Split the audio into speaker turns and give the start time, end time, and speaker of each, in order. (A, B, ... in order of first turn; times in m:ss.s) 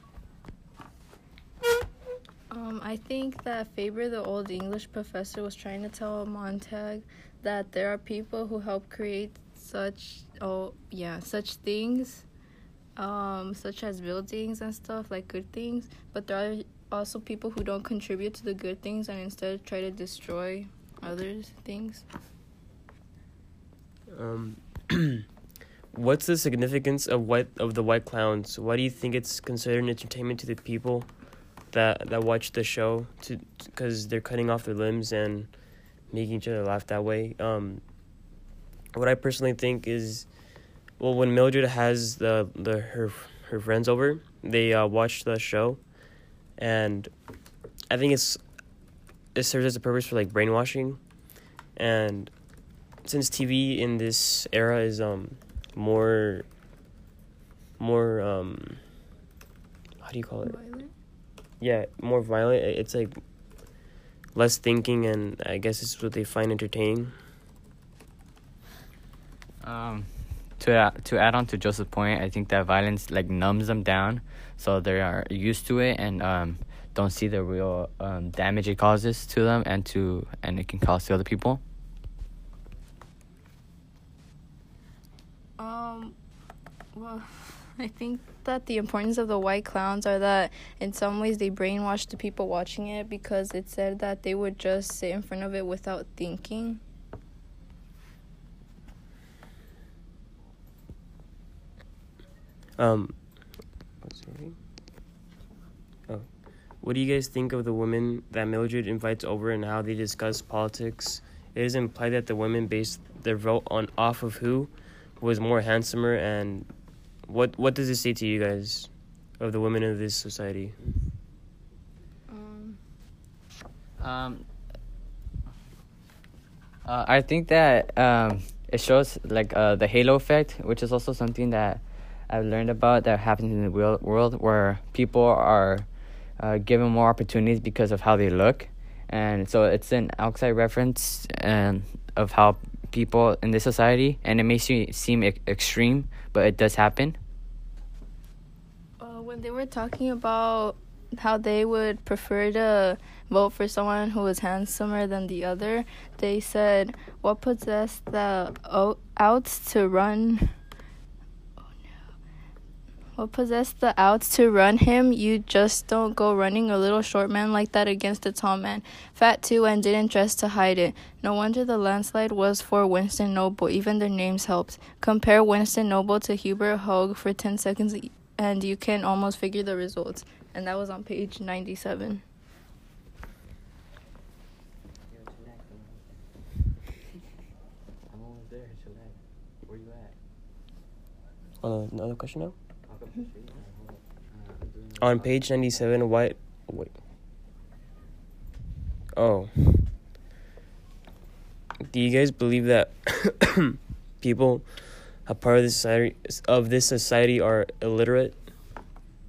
0:02.5-0:12.3 A
0:13.0-0:22.1 A
0:24.1-0:25.3 B
0:25.9-0:31.1 B
0:31.7-0:35.6 B
0:36.1-0:37.8 B
0:38.9-0:40.3 B
0:41.0-0:45.9 B
0:46.6-0:47.1 B
0:47.9-0:48.4 B
0:49.4-0:51.0 B
0:51.8-0:52.3 B
0:53.0-0:56.5 B
0:57.8-0:58.8 B
1:00.0-1:00.6 B
1:00.4-1:00.9 A
1:01.6-1:03.2 B
1:04.3-1:07.1 B
1:09.6-1:21.6 C
1:25.6-1:26.2 A
1:26.9-1:36.8 A
1:42.8-1:43.3 B
1:44.0-1:44.6 B
1:46.1-1:56.7 B
1:57.3-2:00.8 B
2:02.3-2:02.8 A
2:04.0-2:04.5 C
2:06.8-2:15.9 C
2:16.4-2:27.2 C
2:29.0-2:40.5 A
2:43.2-3:02.2 A
3:05.1-3:06.1 C
3:08.1-3:10.1 C
3:11.6-3:12.6 B
3:12.9-3:15.6 C
3:15.0-3:17.0 B
3:19.2-3:19.9 B
3:21.9-3:28.4 B